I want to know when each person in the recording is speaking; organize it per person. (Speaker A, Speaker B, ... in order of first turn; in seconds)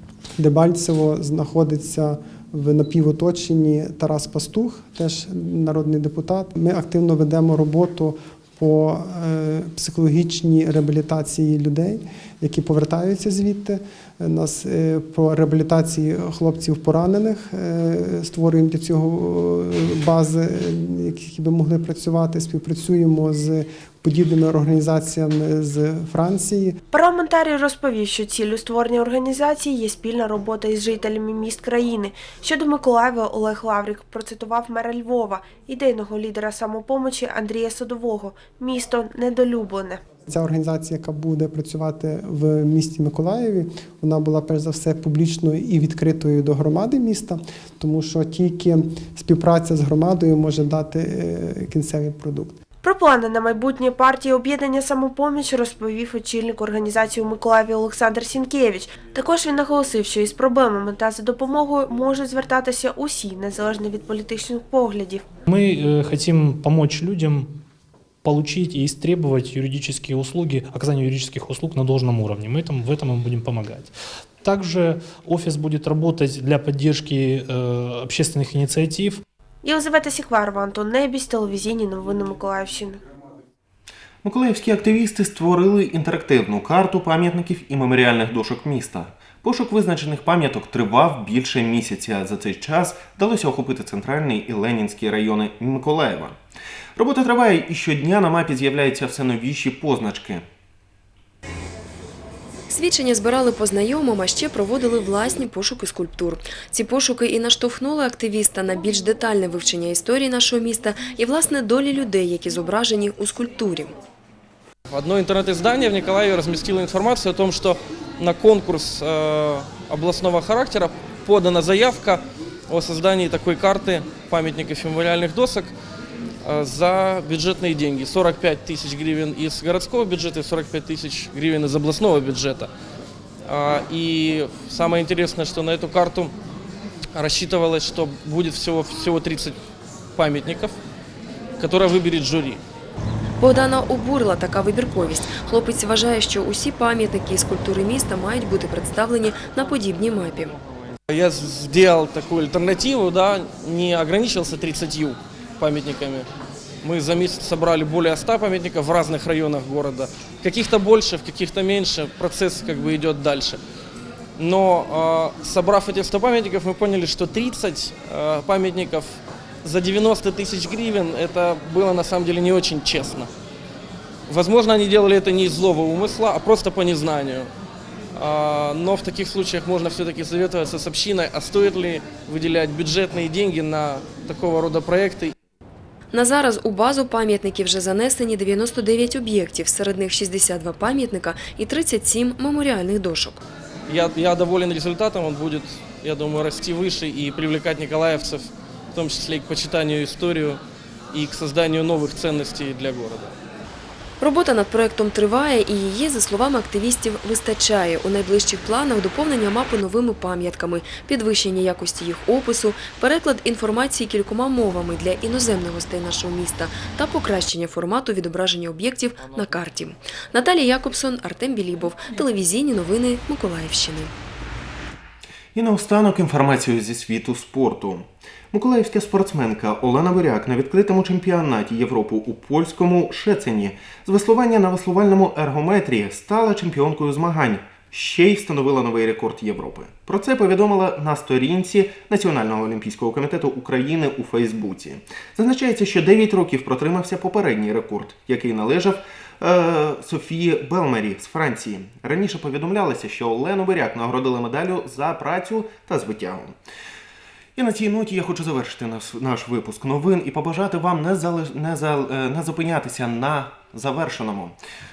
Speaker A: 0.4-26.8, 40.3-52.6
Speaker B: 26.9-40.0, 52.8-65.2, 79.6-83.0
Speaker C: 65.5-67.5, 68.2-79.2
Speaker D: 84.2-96.4, 97.0-100.5, 225.6-256.6, 257.6-264.6
Speaker E: 102.7-113.9, 143.4-150.6, 186.1-193.4, 204.2-224.1
Speaker F: 114.9-125.7, 126.4-132.7, 133.4-136.3, 137.2-139.6, 140.2-140.8, 141.6-142.6, 151.1-156.3, 156.8-163.6, 164.4-173.3, 174.3-177.5, 178.1-185.3, 193.9-200.6, 201.1-203.3